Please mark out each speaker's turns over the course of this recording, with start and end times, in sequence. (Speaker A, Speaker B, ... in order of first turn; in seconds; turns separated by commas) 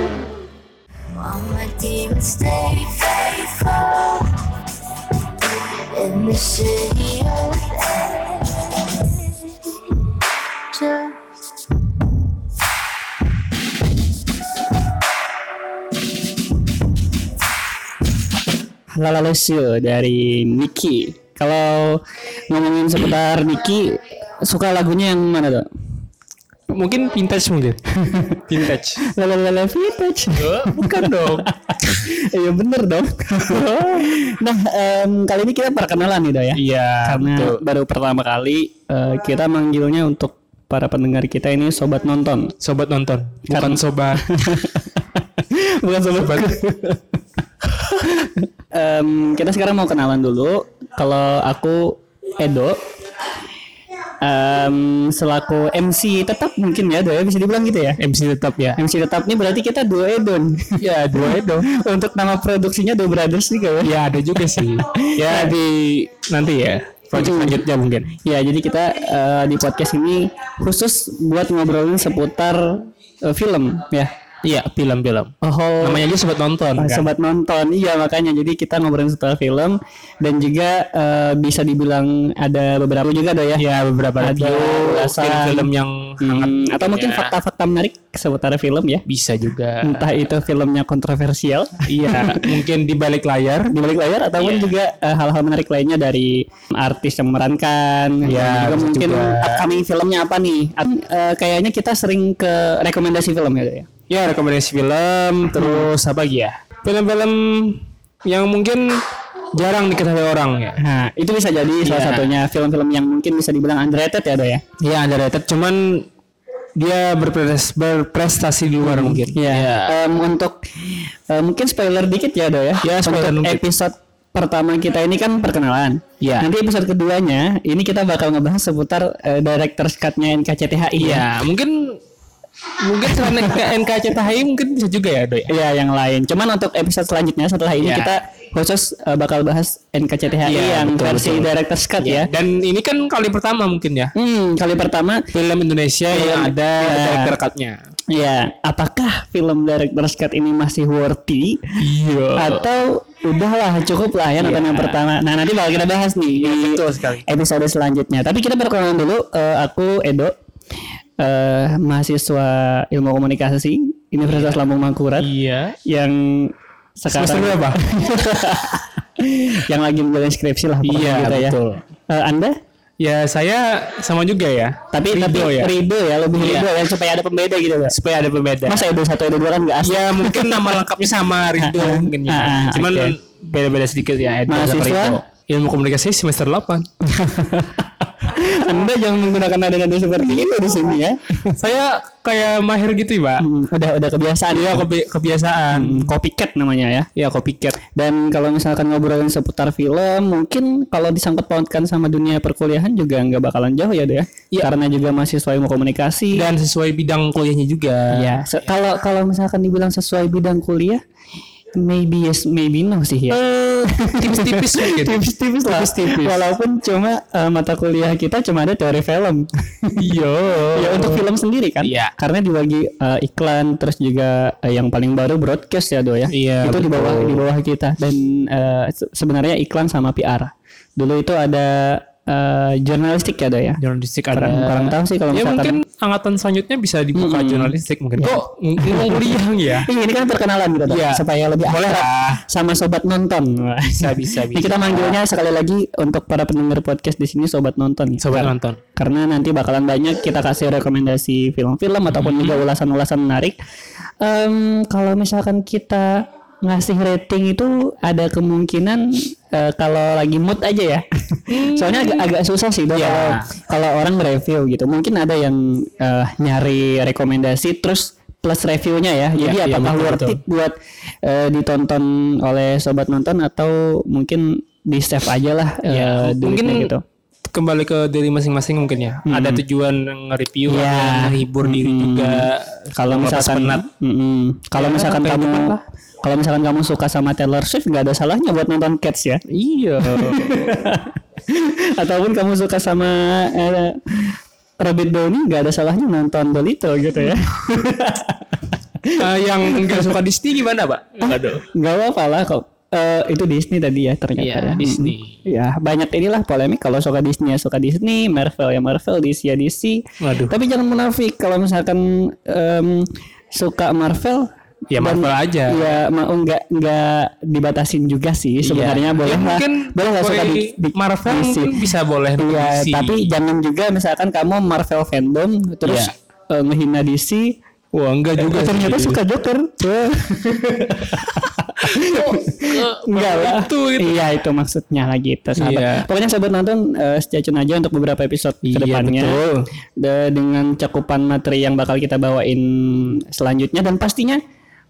Speaker A: 1.2-4.4, Speaker A: 5.4-10.0, Speaker A: 10.7-11.2, Speaker B: 18.9-25.7, Speaker C: 26.7-27.9, Speaker B: 27.9-28.5, Speaker C: 28.5-29.0, Speaker B: 29.0-42.5, Speaker C: 30.4-31.5, Speaker C: 36.5-37.6, Speaker C: 42.6-44.2, Speaker B: 43.5-47.0, Speaker C: 46.1-46.8, Speaker B: 47.7-52.8, Speaker B: 54.2-58.0, Speaker C: 58.0-58.8, Speaker B: 58.8-63.9, Speaker C: 60.8-61.7, Speaker C: 63.8-68.2, Speaker B: 64.6-66.1, Speaker B: 67.1-67.6, Speaker B: 68.1-74.1, Speaker C: 74.4-77.1, Speaker B: 75.4-76.0, Speaker B: 76.8-83.6, Speaker C: 83.6-87.3, Speaker B: 84.2-85.7, Speaker B: 86.2-89.0, Speaker C: 89.1-90.1, Speaker B: 89.8-92.5, Speaker C: 91.9-93.8, Speaker B: 93.7-103.9, Speaker C: 94.4-94.8, Speaker C: 98.2-99.7, Speaker C: 104.1-110.8, Speaker B: 105.5-105.9, Speaker B: 110.8-114.6, Speaker C: 111.8-112.4, Speaker C: 114.8-116.1, Speaker C: 116.8-120.0, Speaker B: 118.8-131.3, Speaker C: 122.8-123.6, Speaker C: 126.2-126.5, Speaker C: 131.0-132.0, Speaker C: 132.8-135.5, Speaker B: 135.5-142.3, Speaker C: 137.8-138.1, Speaker C: 140.4-144.1, Speaker B: 144.2-145.2, Speaker C: 145.3-147.8, Speaker B: 146.1-147.4, Speaker B: 148.1-151.6, Speaker C: 151.8-152.7, Speaker B: 152.3-160.3, Speaker C: 154.4-155.0, Speaker C: 156.4-157.3, Speaker B: 161.2-165.3, Speaker C: 164.3-164.6, Speaker C: 165.2-165.8, Speaker B: 165.8-171.6, Speaker C: 167.1-167.8, Speaker C: 170.8-171.8, Speaker B: 172.1-172.5, Speaker C: 173.0-175.7, Speaker B: 174.9-177.9, Speaker C: 176.3-176.7, Speaker C: 177.9-178.9, Speaker B: 178.7-180.7, Speaker C: 179.8-186.9, Speaker B: 181.6-183.1, Speaker B: 184.5-185.2, Speaker B: 187.0-191.2, Speaker C: 191.5-193.5, Speaker B: 193.4-194.8, Speaker C: 194.5-196.1, Speaker B: 195.7-197.1, Speaker C: 197.2-197.8, Speaker B: 197.8-206.5, Speaker C: 206.3-208.5, Speaker B: 208.1-211.0, Speaker B: 211.8-213.4, Speaker C: 213.3-216.4, Speaker B: 214.0-220.0, Speaker C: 220.0-221.3, Speaker B: 220.7-233.8, Speaker C: 221.8-222.1, Speaker C: 226.3-227.4, Speaker C: 233.8-239.9, Speaker B: 234.3-235.8, Speaker B: 237.2-253.6, Speaker C: 240.9-242.4, Speaker C: 244.0-245.2, Speaker C: 248.2-248.8, Speaker C: 252.1-252.7, Speaker B: 254.2-277.0, Speaker C: 261.5-262.3, Speaker C: 262.9-263.5, Speaker C: 269.4-270.4, Speaker C: 275.9-276.9, Speaker C: 277.5-283.8, Speaker B: 279.3-279.6, Speaker B: 280.7-289.4, Speaker C: 284.8-285.8, Speaker C: 289.5-290.8, Speaker B: 290.0-300.2, Speaker C: 299.2-301.7, Speaker B: 301.2-327.6, Speaker C: 304.4-305.4, Speaker C: 310.2-310.6, Speaker C: 314.9-316.0, Speaker C: 318.6-323.3, Speaker C: 325.8-326.1, Speaker C: 327.9-329.2, Speaker B: 328.4-339.4, Speaker C: 330.6-334.2, Speaker C: 335.6-336.1, Speaker C: 338.6-339.6, Speaker B: 340.0-344.4